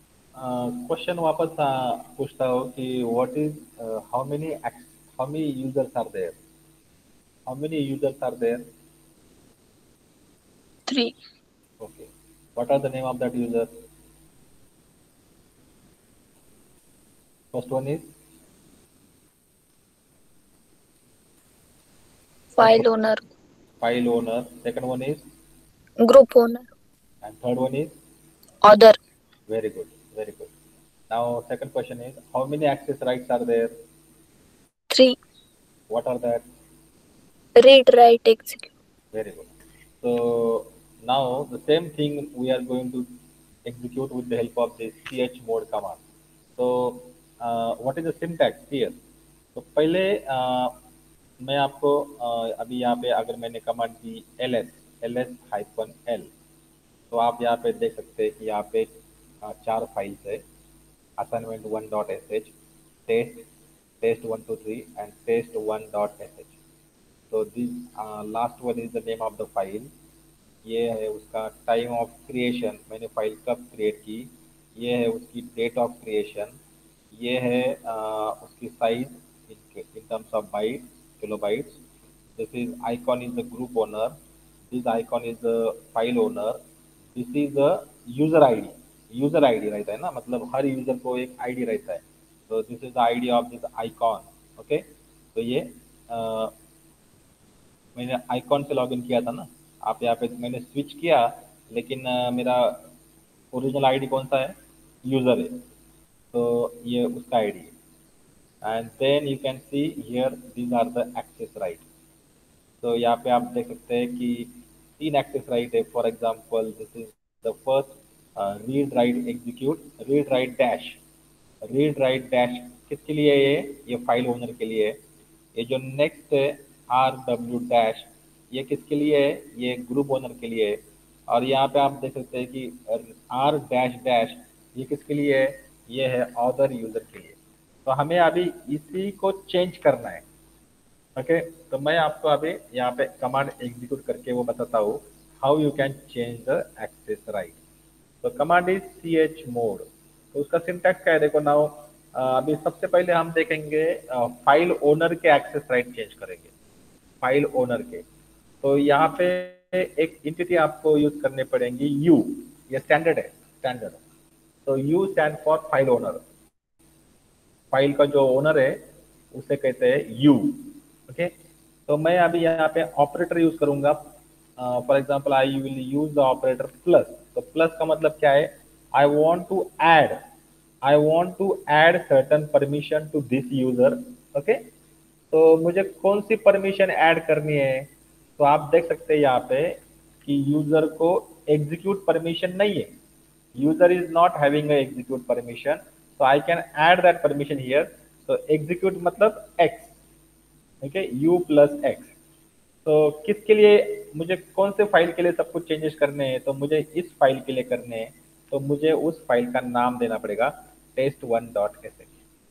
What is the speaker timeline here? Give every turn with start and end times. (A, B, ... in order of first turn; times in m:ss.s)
0:00.4-0:06.4 A
0:07.5-0:08.6 A
0:10.9-0:11.1 B
0:11.8-0:13.7 A
0:17.5-0:18.1 A
0:22.6-0:23.2 B
0:22.6-0:22.9 A
0:23.8-0:25.3 A
0:26.0-0:26.6 B
0:27.2-0:27.9 A
0:28.6-0:29.0 B
0:29.5-0:30.5 A
0:31.1-0:33.7 A
0:34.9-0:35.2 B
0:35.9-0:36.4 A
0:37.6-0:38.7 B
0:39.1-0:39.5 A
0:40.0-0:43.1 A
0:43.7-0:46.0 A
0:46.6-0:49.0 A
0:49.6-0:50.8 A
0:51.4-0:56.3 A
0:57.1-0:58.9 A
0:59.4-1:00.4 A
1:01.2-1:02.5 A
1:03.1-1:03.5 A
1:04.0-1:06.5 A
1:07.3-1:09.9 A
1:10.6-1:16.5 A
1:17.1-1:21.8 A
1:22.4-1:24.2 A
1:24.7-1:26.6 A
1:27.2-1:36.5 A
1:38.0-1:42.9 A
1:43.5-1:45.6 A
1:46.3-1:47.7 A
1:48.6-1:51.8 A
1:52.8-2:01.0 A
2:01.6-2:05.0 A
2:05.6-2:20.2 A
2:21.2-2:27.6 A
2:28.2-2:36.5 A
2:37.2-2:38.0 A
2:38.6-2:44.0 A
2:44.7-2:46.2 A
2:47.7-2:48.8 A
2:49.3-2:51.3 A
2:51.9-3:00.2 A
3:00.8-3:04.6 A
3:05.3-3:12.9 A
3:13.6-3:20.0 A
3:20.8-3:22.1 A
3:22.8-3:32.1 A